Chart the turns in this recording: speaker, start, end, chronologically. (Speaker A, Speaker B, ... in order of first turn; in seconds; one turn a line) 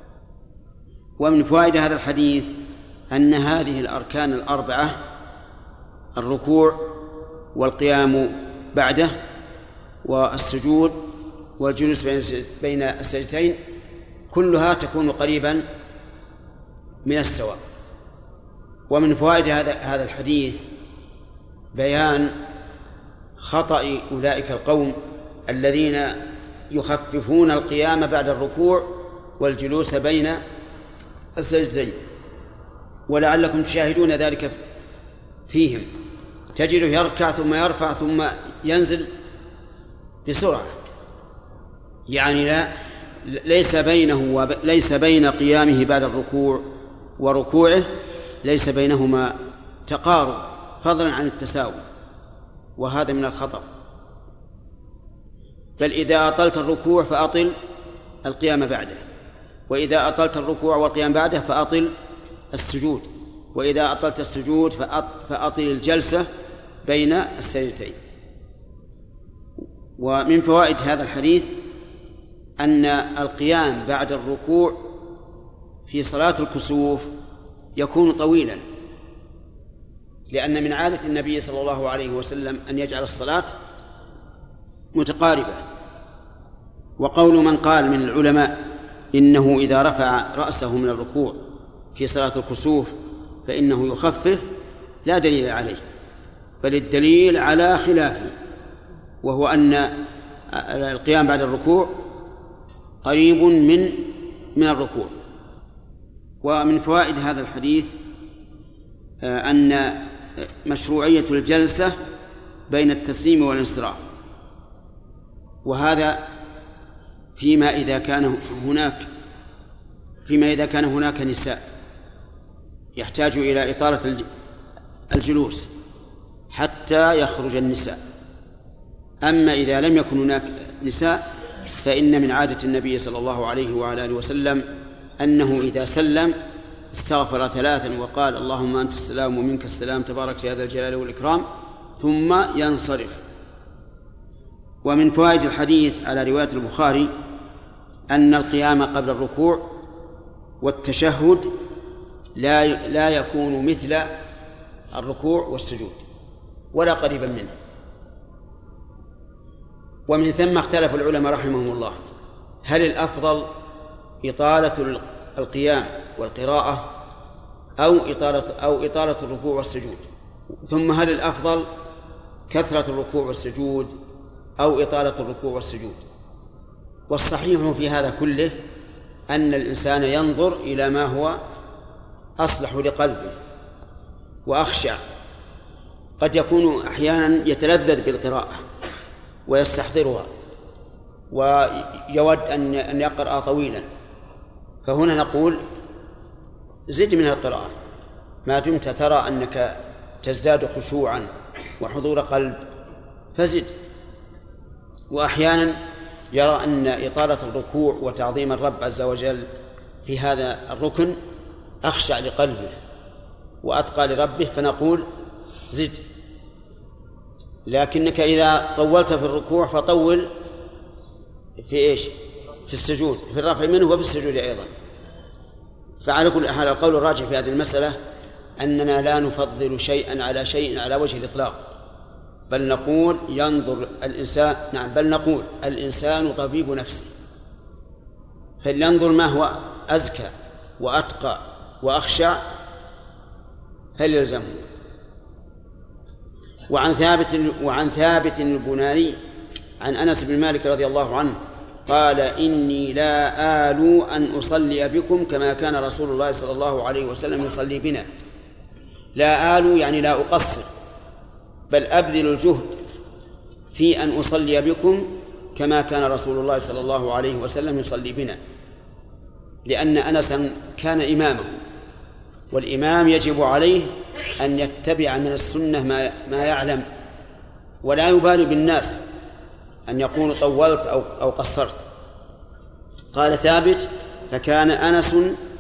Speaker A: 1.2-2.6
Speaker A: 3.1-5.0
Speaker A: 6.2-6.8
Speaker A: 7.5-9.1
Speaker A: 10.0-11.0
Speaker A: 11.6-13.6
Speaker A: 14.3-15.7
Speaker A: 17.1-17.6
Speaker A: 18.9-20.6
Speaker A: 21.8-22.4
Speaker A: 23.4-25.0
Speaker A: 25.5-30.4
Speaker A: 31.4-32.0
Speaker A: 33.1-34.6
Speaker A: 35.5-35.9
Speaker A: 36.5-39.1
Speaker A: 40.3-40.8
Speaker A: 42.1-42.7
Speaker A: 43.3-46.6
Speaker A: 47.2-47.9
Speaker A: 48.4-49.4
Speaker A: 49.9-51.8
Speaker A: 52.8-53.7
Speaker A: 55.8-57.5
Speaker A: 58.2-59.0
Speaker A: 59.7-61.9
Speaker A: 62.5-66.3
Speaker A: 66.8-68.0
Speaker A: 70.0-71.5
Speaker A: 72.6-74.8
Speaker A: 75.9-77.1
Speaker A: 77.8-78.6
Speaker A: 80.3-83.5
Speaker A: 85.0-85.7
Speaker A: 87.0-91.4
Speaker A: 92.0-92.9
Speaker A: 93.5-94.5
Speaker A: 95.0-95.8
Speaker A: 96.6-98.3
Speaker A: 99.2-102.0
Speaker A: 103.0-105.1
Speaker A: 106.4-107.9
Speaker A: 109.2-112.0
Speaker A: 112.7-114.0
Speaker A: 115.7-116.2
Speaker A: 117.4-119.1
Speaker A: 120.3-121.6
Speaker A: 123.0-124.2
Speaker A: 125.1-125.7
Speaker A: 126.5-128.0
Speaker A: 129.2-131.2
Speaker A: 131.8-134.6
Speaker A: 135.2-136.4
Speaker A: 136.9-141.5
Speaker A: 142.0-143.2
Speaker A: 144.8-147.1
Speaker A: 148.1-149.7
Speaker A: 150.6-151.5
Speaker A: 152.4-154.1
Speaker A: 154.9-156.0
Speaker A: 156.7-157.5
Speaker A: 160.1-162.0
Speaker A: 162.7-163.5
Speaker A: 164.2-166.9
Speaker A: 167.8-170.1
Speaker A: 170.7-171.7
Speaker A: 172.5-173.9
Speaker A: 174.6-176.0
Speaker A: 177.1-178.6
Speaker A: 179.3-181.4
Speaker A: 182.4-183.4
Speaker A: 184.5-185.0
Speaker A: 186.2-188.6
Speaker A: 189.5-190.3
Speaker A: 191.3-193.9
Speaker A: 194.9-195.6
Speaker A: 196.9-197.7
Speaker A: 198.5-201.3
Speaker A: 201.8-202.6
Speaker A: 203.4-203.7
Speaker A: 205.1-205.8
Speaker A: 206.3-209.5
Speaker A: 210.1-211.2
Speaker A: 211.8-212.8
Speaker A: 213.6-215.1
Speaker A: 215.7-216.0
Speaker A: 217.7-220.3
Speaker A: 221.7-222.2
Speaker A: 222.7-224.7
Speaker A: 226.0-228.0
Speaker A: 228.6-231.6
Speaker A: 232.5-237.1
Speaker A: 238.6-242.4
Speaker A: 244.0-244.7
Speaker A: 246.7-249.2
Speaker A: 249.8-258.1
Speaker A: 259.2-260.7
Speaker A: 261.7-262.8
Speaker A: 263.8-268.4
Speaker A: 269.7-271.6
Speaker A: 272.5-276.9
Speaker A: 277.8-279.0
Speaker A: 279.9-281.9
Speaker A: 283.1-285.4